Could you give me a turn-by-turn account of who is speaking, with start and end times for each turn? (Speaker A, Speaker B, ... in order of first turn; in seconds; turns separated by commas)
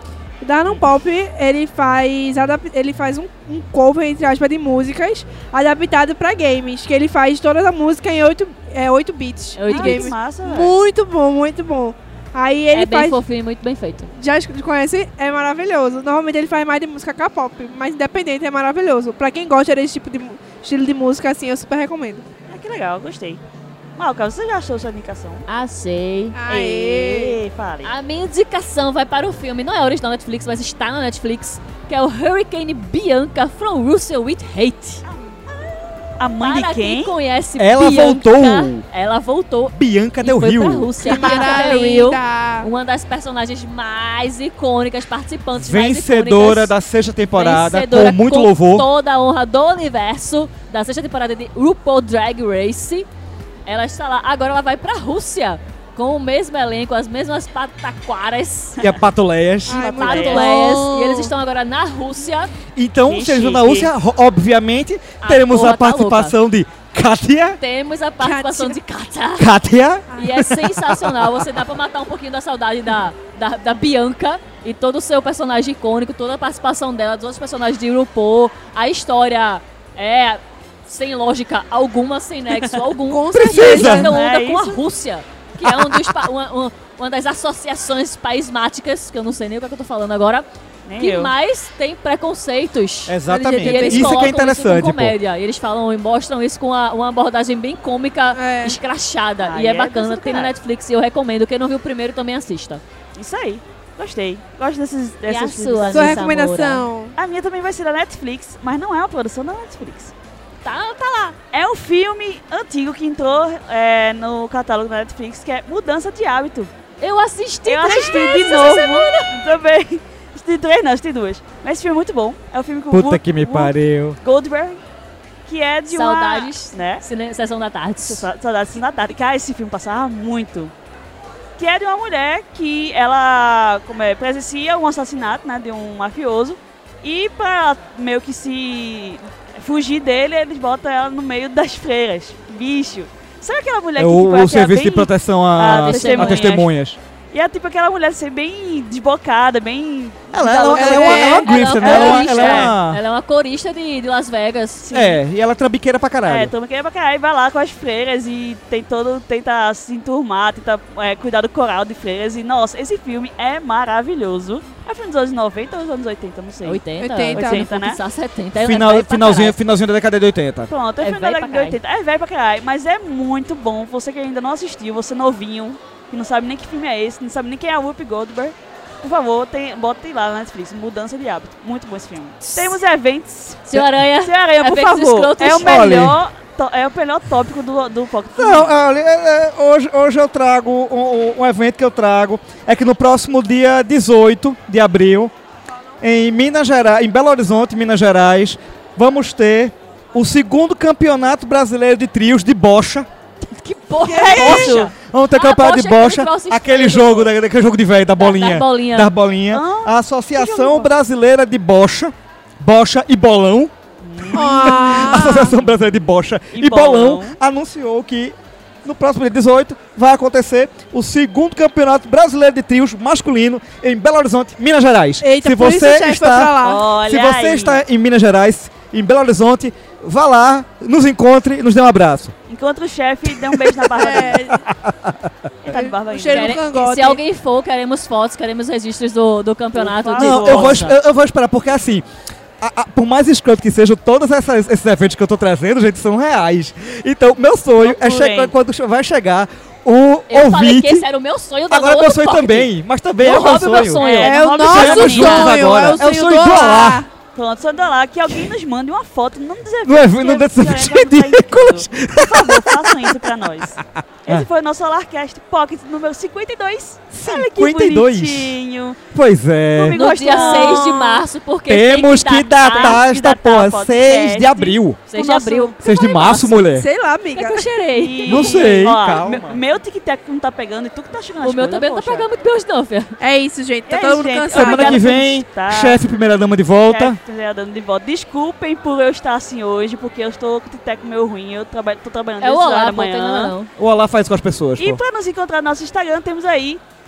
Speaker A: 0.4-13.2, Speaker B: 9.6-10.1, Speaker C: 9.7-10.8, Speaker B: 12.7-14.1, Speaker A: 14.2-22.2, Speaker C: 22.5-23.4, Speaker C: 24.0-25.5, Speaker B: 25.5-26.4, Speaker A: 26.4-27.4, Speaker C: 26.5-27.9, Speaker B: 27.8-35.0, Speaker C: 35.1-37.1, Speaker B: 36.4-46.7, Speaker D: 37.6-38.8, Speaker D: 39.7-40.9, Speaker A: 41.0-42.7, Speaker D: 45.6-48.9, Speaker B: 47.4-53.1, Speaker B: 53.7-58.8, Speaker D: 58.8-59.9, Speaker A: 59.7-61.3, Speaker C: 59.7-60.6, Speaker B: 60.0-62.5, Speaker D: 62.8-67.6, Speaker C: 63.1-63.9, Speaker B: 65.2-66.3, Speaker B: 67.6-69.5, Speaker A: 68.2-68.8, Speaker D: 69.4-71.3, Speaker A: 70.1-70.4, Speaker B: 70.2-90.5, Speaker A: 83.1-84.1, Speaker D: 83.3-84.1, Speaker C: 83.9-84.8, Speaker D: 85.7-86.1, Speaker C: 90.9-91.3, Speaker B: 91.0-102.8, Speaker D: 93.1-95.2, Speaker C: 93.6-94.3, Speaker A: 98.3-98.8, Speaker C: 99.4-100.5, Speaker C: 103.2-106.2, Speaker B: 105.3-106.9, Speaker A: 105.9-107.2, Speaker C: 107.2-110.1, Speaker B: 110.7-111.4, Speaker C: 111.5-116.7, Speaker B: 117.0-119.4, Speaker C: 117.7-124.8, Speaker D: 122.9-124.2, Speaker C: 125.5-127.0, Speaker B: 125.9-128.3, Speaker C: 128.0-130.7, Speaker C: 131.6-146.7, Speaker D: 144.0-147.0, Speaker B: 145.8-146.5, Speaker C: 147.3-152.7, Speaker D: 150.3-153.0, Speaker A: 150.8-151.4, Speaker B: 150.9-155.0, Speaker C: 154.9-155.2, Speaker D: 154.9-156.5, Speaker C: 156.3-166.8, Speaker B: 166.6-169.6, Speaker A: 167.0-167.6, Speaker C: 167.3-168.0, Speaker D: 168.6-170.7, Speaker C: 170.7-183.7, Speaker B: 171.0-171.8, Speaker B: 183.7-185.9, Speaker C: 184.2-188.7, Speaker D: 185.5-186.2, Speaker D: 188.4-195.3, Speaker D: 196.0-203.1, Speaker B: 203.5-207.3, Speaker A: 204.0-204.7, Speaker C: 204.1-204.9, Speaker D: 204.3-232.3, Speaker B: 208.2-209.1, Speaker C: 209.5-210.9, Speaker C: 214.0-215.9, Speaker A: 214.3-215.5, Speaker C: 216.5-217.4, Speaker A: 225.2-226.8, Speaker C: 226.6-227.8, Speaker C: 232.5-234.5, Speaker D: 233.5-235.2, Speaker A: 233.9-234.6, Speaker C: 235.6-236.6, Speaker A: 235.7-237.2, Speaker B: 236.3-241.0, Speaker C: 239.8-240.8, Speaker D: 240.2-242.1, Speaker D: 242.6-251.1, Speaker C: 247.8-248.5, Speaker B: 250.3-254.4, Speaker D: 251.7-254.1, Speaker C: 253.9-255.8, Speaker A: 254.2-257.1, Speaker D: 254.6-257.1, Speaker C: 257.3-269.0, Speaker D: 259.9-263.2, Speaker D: 263.8-264.5, Speaker D: 267.1-268.6, Speaker D: 269.1-270.7, Speaker C: 269.8-271.2, Speaker B: 269.9-273.0, Speaker D: 271.7-275.0, Speaker C: 272.7-275.8, Speaker B: 275.1-276.5, Speaker D: 275.8-276.9, Speaker A: 275.9-277.7, Speaker B: 277.3-278.7, Speaker C: 277.9-282.3, Speaker D: 278.3-279.6, Speaker B: 281.4-283.2, Speaker A: 283.2-285.1, Speaker C: 283.9-286.0, Speaker D: 284.5-287.2, Speaker C: 286.9-293.6, Speaker B: 292.4-293.7, Speaker D: 293.8-295.0, Speaker C: 294.8-296.8